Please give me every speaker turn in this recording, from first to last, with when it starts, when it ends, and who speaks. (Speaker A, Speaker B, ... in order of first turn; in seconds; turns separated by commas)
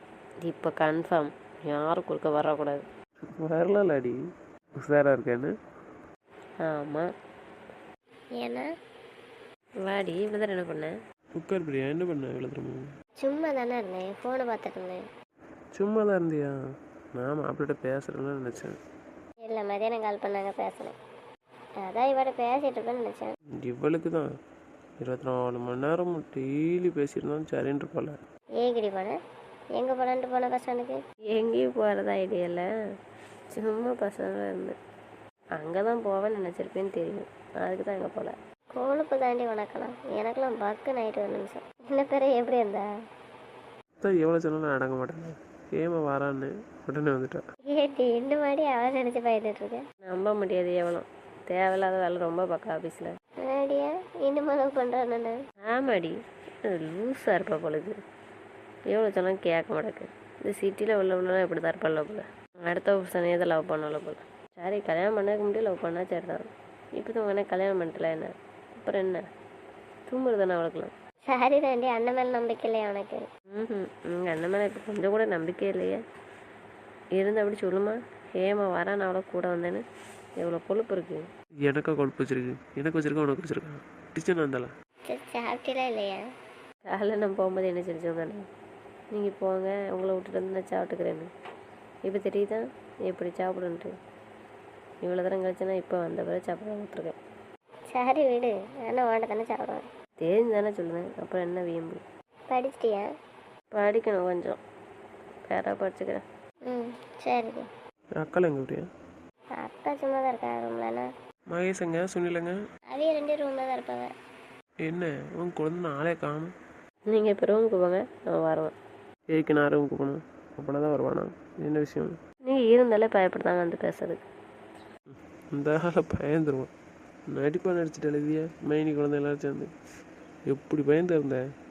Speaker A: 0.4-2.8, Speaker B: 3.2-4.1, Speaker B: 4.8-5.5, Speaker A: 6.6-7.0, Speaker C: 8.4-8.7, Speaker A: 9.8-10.9, Speaker B: 11.3-12.8, Speaker C: 13.2-15.0, Speaker B: 15.7-16.5, Speaker B: 17.1-18.8, Speaker C: 19.4-20.9, Speaker C: 21.8-23.3, Speaker B: 23.6-24.3, Speaker B: 25.0-28.1, Speaker C: 28.6-29.1, Speaker C: 29.8-31.0, Speaker A: 31.3-32.6, Speaker A: 33.5-34.8, Speaker A: 35.5-38.3, Speaker C: 38.8-42.9, Speaker B: 44.0-47.4, Speaker C: 47.7-49.8, Speaker A: 50.1-53.1, Speaker C: 53.5-55.3, Speaker A: 55.7-57.9, Speaker A: 58.9-69.2, Speaker A: 70.1-70.9, Speaker C: 71.3-73.3, Speaker A: 73.5-76.0, Speaker A: 77.2-79.8, Speaker A: 80.4-81.2, Speaker B: 81.6-84.7, Speaker C: 85.1-86.2, Speaker A: 86.9-88.4, Speaker A: 89.1-91.3, Speaker A: 92.0-93.9, Speaker A: 95.0-97.2, Speaker C: 97.9-99.8, Speaker A: 100.2-102.0, Speaker C: 102.5-103.0, Speaker A: 103.7-104.6, Speaker A: 105.5-106.2, Speaker C: 106.7-107.7, Speaker B: 108.2-108.8, Speaker C: 109.6-111.0, Speaker B: 111.5-112.5, Speaker C: 112.9-114.1, Speaker B: 114.8-116.5, Speaker A: 117.1-118.7, Speaker B: 119.3-122.1, Speaker A: 122.5-124.2, Speaker B: 125.1-126.7, Speaker B: 127.3-129.7, Speaker B: 130.5-131.4